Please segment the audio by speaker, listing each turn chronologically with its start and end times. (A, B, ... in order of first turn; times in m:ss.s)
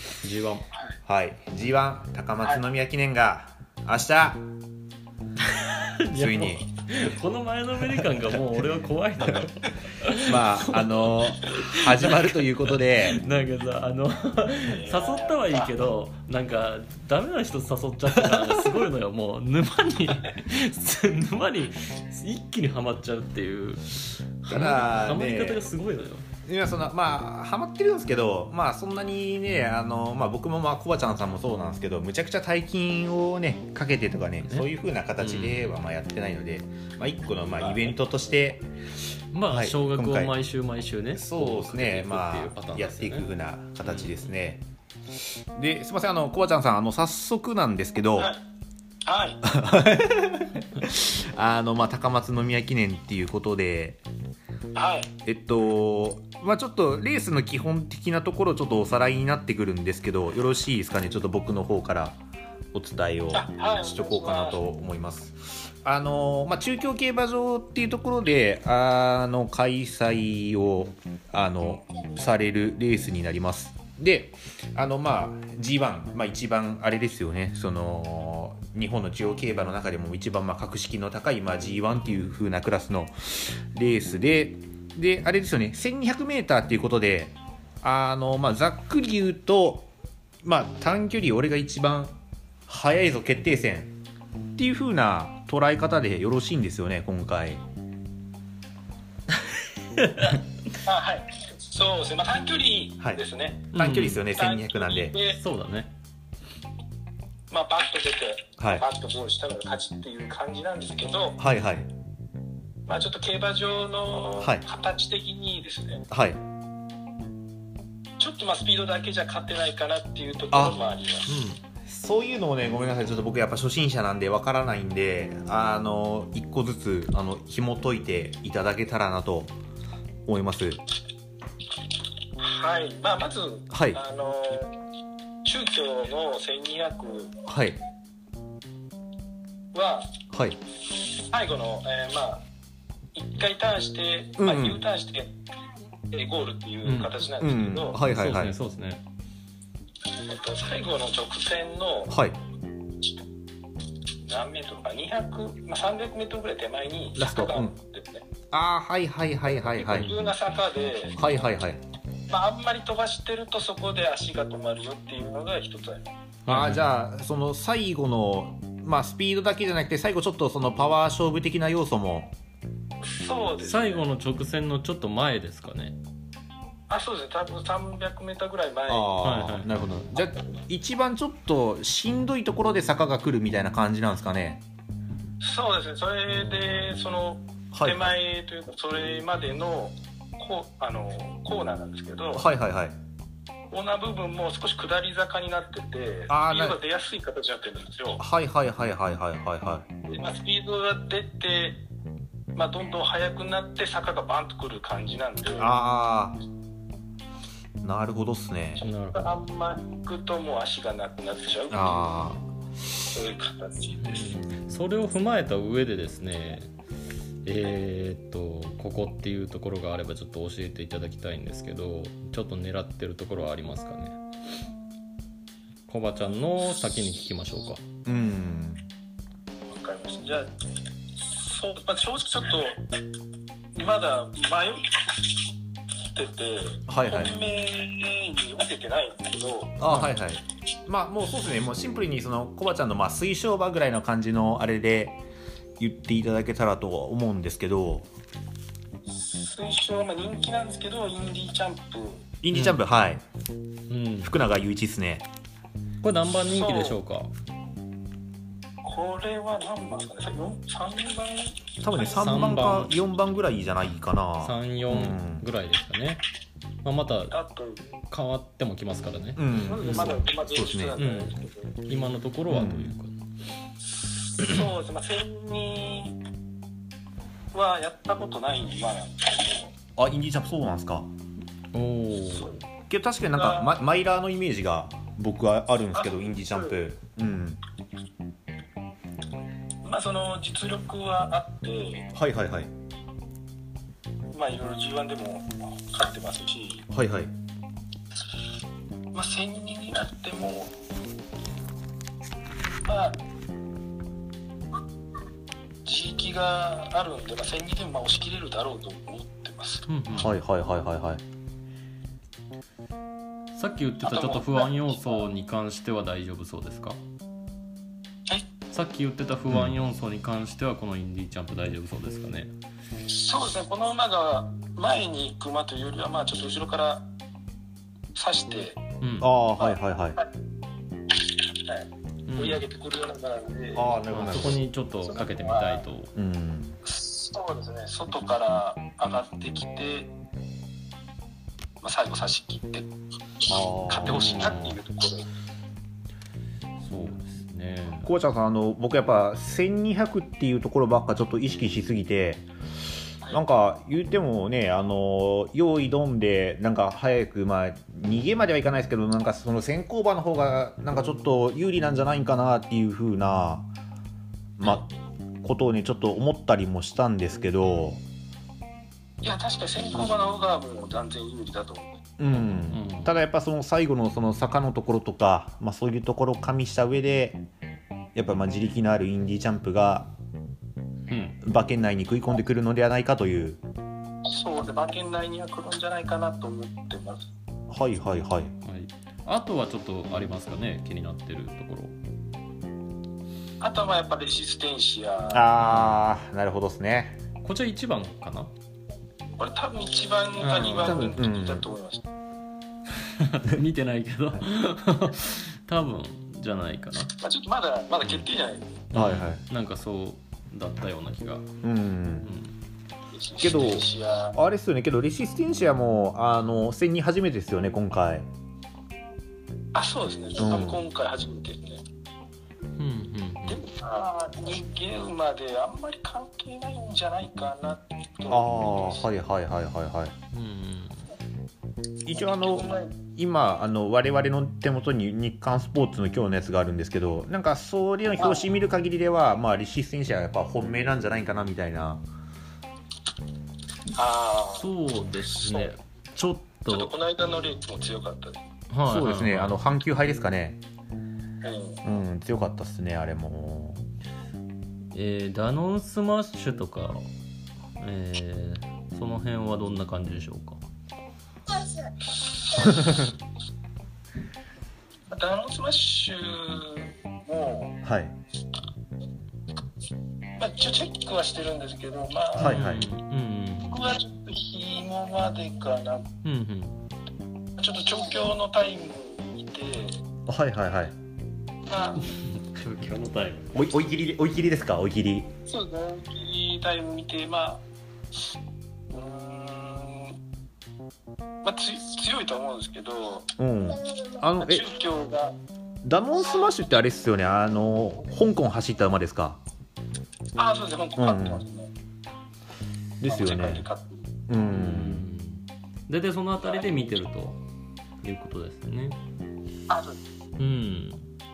0:00.2-0:00.7 A
0:01.0-0:04.4 B
0:05.5-0:26.2 A
0:06.1-0:06.6 B
0:10.3-0:13.2 B
0:14.6-0:15.7 C
0:18.2-0:18.5 B
0:24.5-0:25.6 B
0:26.4-0:38.7 B
0:34.4-0:35.8 A
0:37.6-0:38.0 C
0:39.3-0:43.3 A
0:39.5-0:40.4 B
0:41.1-0:44.6 B
0:43.8-0:44.3 A
0:45.5-0:48.3 B
0:49.0-0:49.4 C
0:49.4-0:54.0 B
0:54.7-0:55.1 C
0:55.2-1:02.2 B
1:02.7-1:29.9 B
1:03.3-1:04.6 C
1:30.4-1:32.2 B
1:32.7-1:33.9 B
1:34.6-1:37.6 B
1:40.0-1:40.4 A
1:40.8-1:43.7 C
1:43.7-1:44.3 A
1:43.7-1:45.2 B
1:44.2-1:45.4 C
1:45.2-1:45.9 A
1:47.5-1:51.4 C
1:48.6-1:48.8 B
1:51.4-1:51.9 B
1:52.8-1:56.0 C
1:56.1-1:56.4 B
1:58.2-2:01.5 C
2:00.5-2:00.8 B
2:01.3-2:01.6 A
2:01.8-2:09.5 B
2:10.2-2:10.8 B
2:12.4-2:14.8 C
2:13.7-2:14.0 B
2:15.4-2:17.3 C
2:17.4-2:17.8 B
2:19.7-2:20.2 C
2:20.3-2:20.6 B
2:21.2-2:22.4 C
2:23.1-2:25.3 C
2:24.4-2:24.8 B
2:26.1-2:28.0 C
2:26.8-2:27.2 A
2:27.4-2:28.5 B
2:28.0-2:29.0 A
2:30.2-2:32.1 C
2:32.1-2:32.4 B
2:34.2-2:38.2 C
2:37.2-2:37.7 B
2:38.5-2:40.1 B
2:39.8-2:41.2 C
2:41.2-2:41.8 B
2:42.3-2:46.1 C
2:46.4-2:46.9 A
2:46.5-2:52.3 B
2:53.0-2:54.0 C
2:53.6-2:56.0 A
2:56.9-2:59.2 C
2:58.9-3:04.6 B
2:59.2-2:59.7 A
3:00.2-3:00.6 C
3:05.4-3:12.5 C
3:07.7-3:08.1 B
3:12.3-3:13.0 B
3:13.7-3:18.2 C
3:16.3-3:16.8 B
3:18.2-3:19.8 B
3:20.0-3:21.8 C
3:22.5-3:25.7 C
3:25.6-3:26.4 B
3:27.8-3:28.8 B
3:28.8-3:32.0 C
3:28.8-3:29.4 A
3:31.7-3:32.4 B
3:33.1-3:34.3 C
3:34.0-3:36.7 A
3:37.4-3:44.2 A
3:45.9-3:47.8 A
3:48.0-3:48.8 B
3:49.7-3:50.5 C
3:51.2-3:52.8 C
3:53.7-3:55.2 C
3:56.1-3:59.8 C
3:56.9-3:57.4 B
3:59.8-4:05.2 B
3:59.8-4:00.2 A
4:05.8-4:08.1 B
4:09.1-4:12.2 C
4:12.4-4:13.2 B
4:12.5-4:12.8 A
4:13.9-4:14.4 A
4:14.2-4:15.3 B
4:16.0-4:17.3 A
4:16.5-4:17.0 C
4:18.8-4:22.6 C
4:21.8-4:25.4 B
4:22.1-4:23.0 A
4:24.4-4:26.2 A
4:26.8-4:27.3 A
4:27.3-4:27.8 C
4:28.0-4:30.2 A
4:29.4-4:31.0 B
4:29.5-4:31.8 C
4:31.0-4:33.2 A
4:32.5-4:33.0 B
4:34.3-4:36.2 C
4:37.5-4:39.7 C
4:40.0-4:41.1 B
4:41.7-4:42.6 A
4:42.9-4:47.6 B
4:43.2-4:43.8 C
4:45.9-4:46.8 C
4:49.8-4:52.1 C
4:52.1-4:52.7 B
4:54.3-4:56.9 C
4:56.9-4:57.3 B
4:59.1-5:00.7 C
5:02.8-5:03.2 C
5:05.8-5:09.8 C
5:09.9-5:10.4 A
5:10.1-5:11.2 B
5:13.5-5:17.0 A
5:14.0-5:15.3 C
5:18.7-5:22.5 A
5:19.5-5:19.8 B
5:23.0-5:27.0 C
5:28.1-5:28.8 C
5:29.0-5:29.3 A
5:29.2-5:30.2 B
5:29.6-5:30.3 C
5:31.5-5:34.0 C
5:32.3-5:32.6 A
5:33.7-5:34.6 B
5:34.1-5:36.1 A
5:35.0-5:35.9 C
5:36.1-5:36.8 B
5:36.8-5:40.1 C
5:41.8-5:42.9 C
5:43.5-5:44.6 B
5:43.5-5:45.3 C
5:44.0-5:44.8 A
5:46.8-5:48.1 A
5:48.0-5:52.4 B
5:53.3-6:03.7 B
6:04.6-6:04.9 B
6:05.4-6:08.0 B
6:09.2-6:12.0 C
6:12.2-6:17.5 B
6:12.3-6:13.1 A
6:18.1-6:20.1 B
6:21.1-6:21.4 A
6:21.4-6:23.6 B
6:24.2-6:27.3 C
6:27.7-6:28.5 B
6:28.6-6:32.0 A
6:33.6-6:35.5 C
6:35.3-6:37.2 B
6:35.6-6:36.0 A
6:37.4-6:38.5 A
6:39.4-6:42.0 C
6:40.4-6:41.1 A
6:40.6-6:41.7 B
6:43.2-6:47.1 A
6:47.2-6:48.8 C
6:48.9-6:51.5 A
6:48.9-6:49.4 B
6:51.6-6:52.3 B
6:52.2-6:52.5 A
6:53.1-6:54.4 C
6:53.4-6:58.3 B
6:59.7-7:01.8 C
7:00.4-7:00.8 B
7:02.8-7:03.6 A
7:03.5-7:09.1 C
7:08.3-7:10.1 B
7:10.3-7:11.0 A
7:12.0-7:22.0 B
7:12.1-7:13.0 C
7:18.2-7:18.5 C
7:23.9-7:25.8 C
7:24.5-7:26.9 A
7:26.7-7:28.4 C
7:28.7-7:29.6 A
7:28.8-7:30.6 B
7:31.4-7:31.8 C
7:31.8-7:33.8 B
7:34.9-7:37.0 A
7:37.8-7:40.6 A
7:42.2-7:43.1 C
7:45.1-7:47.8 C
7:47.8-7:48.2 B
7:50.4-7:52.7 C
7:52.4-7:52.9 B
7:52.4-7:53.8 A
7:53.6-7:56.1 C
7:56.2-7:56.8 A
7:57.6-8:00.0 C
8:00.3-8:00.9 B
8:01.6-8:02.1 C
8:02.1-8:03.5 A
8:03.5-8:05.3 B
8:05.4-8:07.6 C
8:08.9-8:10.2 C
8:11.4-8:13.3 C
8:13.4-8:14.6 B
8:14.4-8:15.3 C
8:15.8-8:19.4 B
8:20.3-8:21.7 C
8:21.0-8:21.4 B
8:23.0-8:23.6 B
8:23.0-8:24.1 C
8:24.3-8:25.0 B
8:24.4-8:27.4 A
8:26.4-8:26.7 C
8:28.0-8:29.0 A
8:29.7-8:30.0 C
8:30.4-8:31.0 A